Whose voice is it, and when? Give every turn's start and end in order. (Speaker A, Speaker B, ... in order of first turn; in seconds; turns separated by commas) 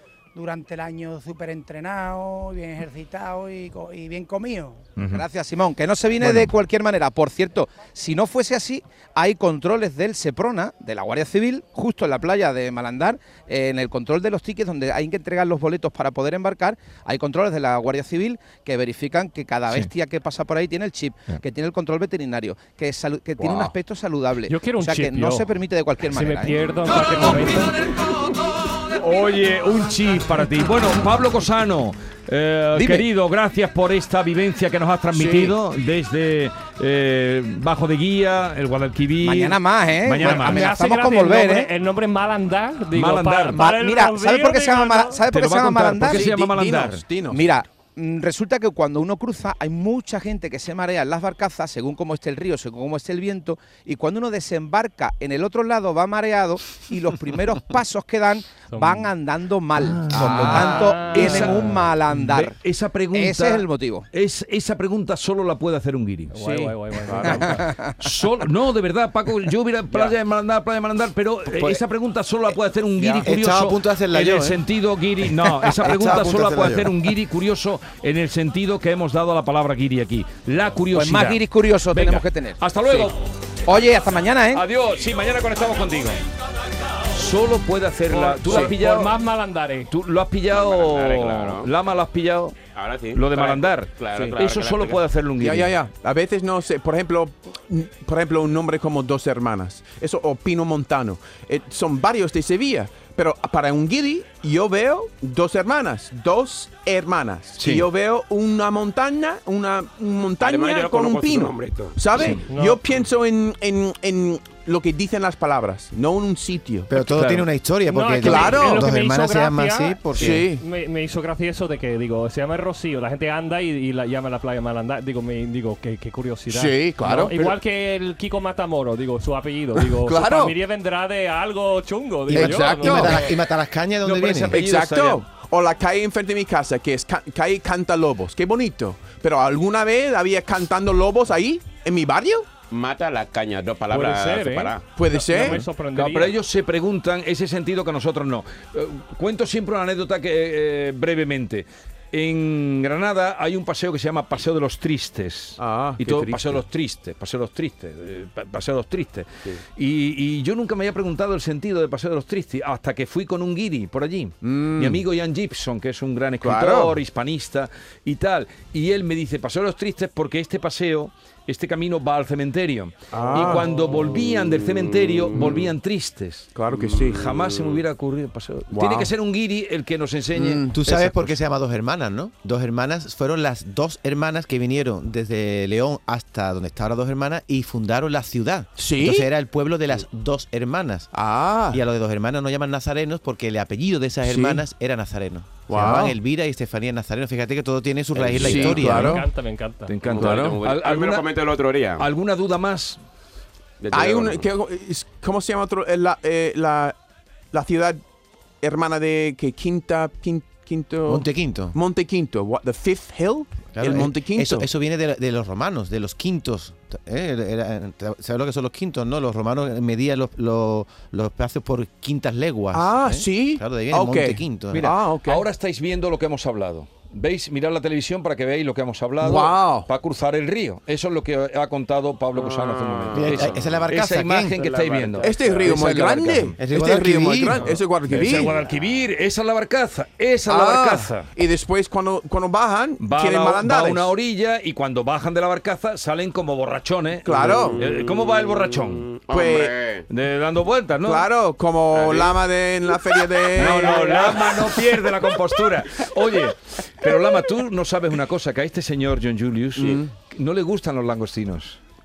Speaker A: 0.3-4.8, Speaker B: 5.0-5.2, Speaker C: 5.1-26.6, Speaker B: 6.2-6.5, Speaker D: 23.4-23.7, Speaker E: 24.5-27.7, Speaker B: 29.0-40.7, Speaker C: 32.8-33.1, Speaker D: 35.1-35.5, Speaker C: 39.2-41.7, Speaker E: 40.2-45.2, Speaker B: 42.9-43.6, Speaker C: 43.5-46.3, Speaker B: 45.3-47.0, Speaker D: 46.0-47.5, Speaker C: 47.3-62.6, Speaker E: 58.7-59.1, Speaker B: 59.8-66.3, Speaker E: 60.1-61.8, Speaker D: 60.3-60.8, Speaker C: 63.1-64.1, Speaker E: 66.3-67.7, Speaker D: 66.4-67.5, Speaker C: 67.6-68.1, Speaker B: 68.0-83.2, Speaker D: 73.0-73.3, Speaker F: 73.2-74.6, Speaker F: 75.6-77.0, Speaker C: 80.9-82.6, Speaker C: 83.7-84.6, Speaker B: 84.5-86.2, Speaker B: 87.1-89.2, Speaker E: 88.1-89.9, Speaker B: 89.9-92.6, Speaker G: 90.5-91.7, Speaker G: 92.8-95.0, Speaker B: 93.1-95.8, Speaker D: 95.4-116.9, Speaker B: 107.6-107.9, Speaker G: 110.4-112.3, Speaker B: 112.1-112.4, Speaker E: 112.5-112.8, Speaker F: 116.9-120.5, Speaker B: 116.9-117.5, Speaker E: 117.9-133.3, Speaker D: 118.2-118.9, Speaker D: 120.2-120.6, Speaker D: 126.5-127.6, Speaker D: 129.9-130.6, Speaker D: 132.3-133.3, Speaker F: 132.8-134.6, Speaker B: 134.0-135.2, Speaker D: 134.5-142.5, Speaker G: 142.7-144.9, Speaker E: 143.9-146.3, Speaker D: 145.0-145.6, Speaker B: 145.4-181.4, Speaker D: 155.6-156.6, Speaker D: 164.4-165.0, Speaker D: 166.4-167.0, Speaker D: 173.1-173.8, Speaker G: 173.3-175.6, Speaker D: 175.4-175.7, Speaker D: 176.6-177.3, Speaker G: 176.8-177.8, Speaker D: 178.7-179.1, Speaker D: 180.3-180.8, Speaker F: 180.7-191.1, Speaker D: 188.8-189.3, Speaker D: 191.1-191.8, Speaker F: 191.7-199.1, Speaker D: 194.2-194.6, Speaker D: 195.7-196.2, Speaker G: 198.2-198.7, Speaker D: 198.3-199.2, Speaker B: 198.5-198.8, Speaker E: 198.7-199.9, Speaker B: 199.9-201.3, Speaker G: 200.0-202.1, Speaker D: 200.1-200.6, Speaker B: 202.0-203.0, Speaker G: 203.8-204.5, Speaker D: 203.9-207.0, Speaker D: 207.5-208.0, Speaker D: 208.6-214.7, Speaker F: 211.1-211.8, Speaker F: 213.7-224.9, Speaker D: 222.7-225.4, Speaker B: 224.8-236.6, Speaker D: 229.2-229.9, Speaker G: 232.3-233.9, Speaker F: 233.1-234.6, Speaker G: 234.5-236.1, Speaker D: 235.2-238.6, Speaker F: 236.6-237.6, Speaker B: 237.6-241.3, Speaker G: 238.3-238.7, Speaker D: 240.5-244.1, Speaker B: 243.0-249.1, Speaker D: 247.2-247.8, Speaker G: 247.4-250.1, Speaker D: 249.3-249.8, Speaker B: 250.1-251.3, Speaker D: 251.0-254.4, Speaker G: 251.9-252.4, Speaker G: 252.9-254.6, Speaker B: 253.6-261.8, Speaker D: 259.8-260.1